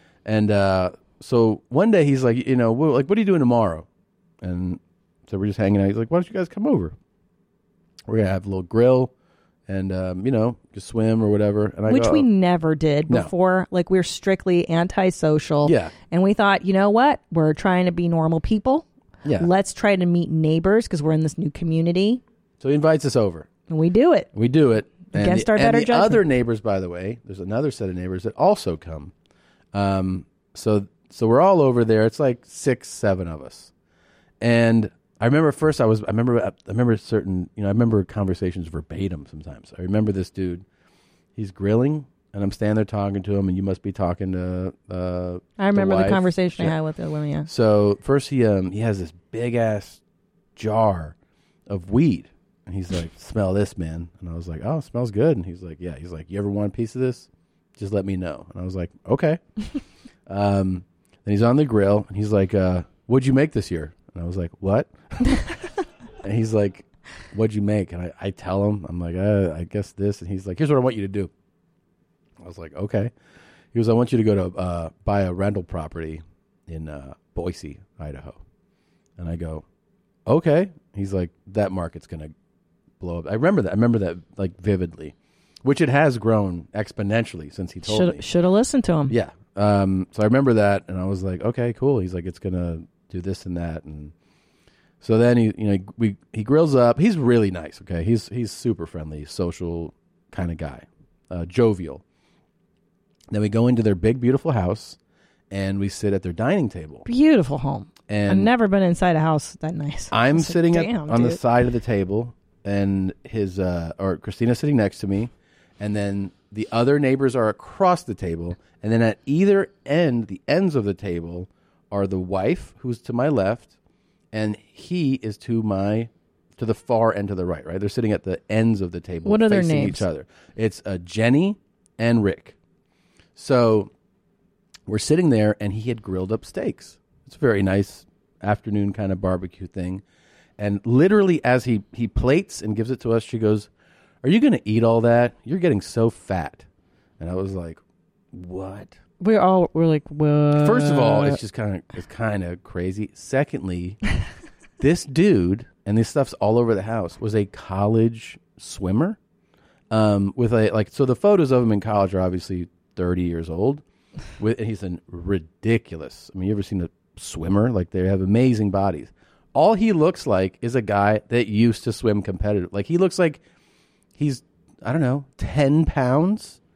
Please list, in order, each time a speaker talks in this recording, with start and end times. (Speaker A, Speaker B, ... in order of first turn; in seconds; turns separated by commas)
Speaker A: 0.2-3.9, Speaker A: 4.4-6.9, Speaker A: 8.1-9.1, Speaker A: 9.7-12.2, Speaker B: 11.9-18.9, Speaker A: 15.6-15.9, Speaker A: 19.2-19.5, Speaker B: 19.4-22.2, Speaker A: 22.6-23.5, Speaker B: 23.7-24.3, Speaker A: 24.3-29.1, Speaker B: 25.1-26.2, Speaker A: 29.7-33.7, Speaker A: 34.4-40.6, Speaker A: 41.4-46.7, Speaker B: 45.6-47.5, Speaker A: 47.5-50.0, Speaker A: 50.6-51.1, Speaker A: 51.7-59.4, Speaker A: 60.3-65.4, Speaker A: 66.2-71.3, Speaker A: 72.4-73.1, Speaker A: 73.7-78.4, Speaker A: 79.2-79.6, Speaker A: 80.2-82.3, Speaker A: 83.0-88.2, Speaker B: 87.8-89.1, Speaker A: 89.1-94.1, Speaker A: 95.0-102.0, Speaker A: 103.3-105.0, Speaker A: 105.5-107.1, Speaker B: 107.1-111.4, Speaker A: 108.1-108.5, Speaker A: 110.1-123.7, Speaker A: 124.3-132.6, Speaker B: 129.2-130.0, Speaker A: 133.4-133.9, Speaker A: 134.9-140.0, Speaker A: 140.6-143.7, Speaker A: 144.2-146.6, Speaker A: 147.2-147.8, Speaker A: 148.3-149.0, Speaker B: 149.2-151.4, Speaker A: 150.6-154.0, Speaker A: 154.8-159.2, Speaker A: 159.9-163.8, Speaker A: 164.4-173.4, Speaker A: 174.2-176.6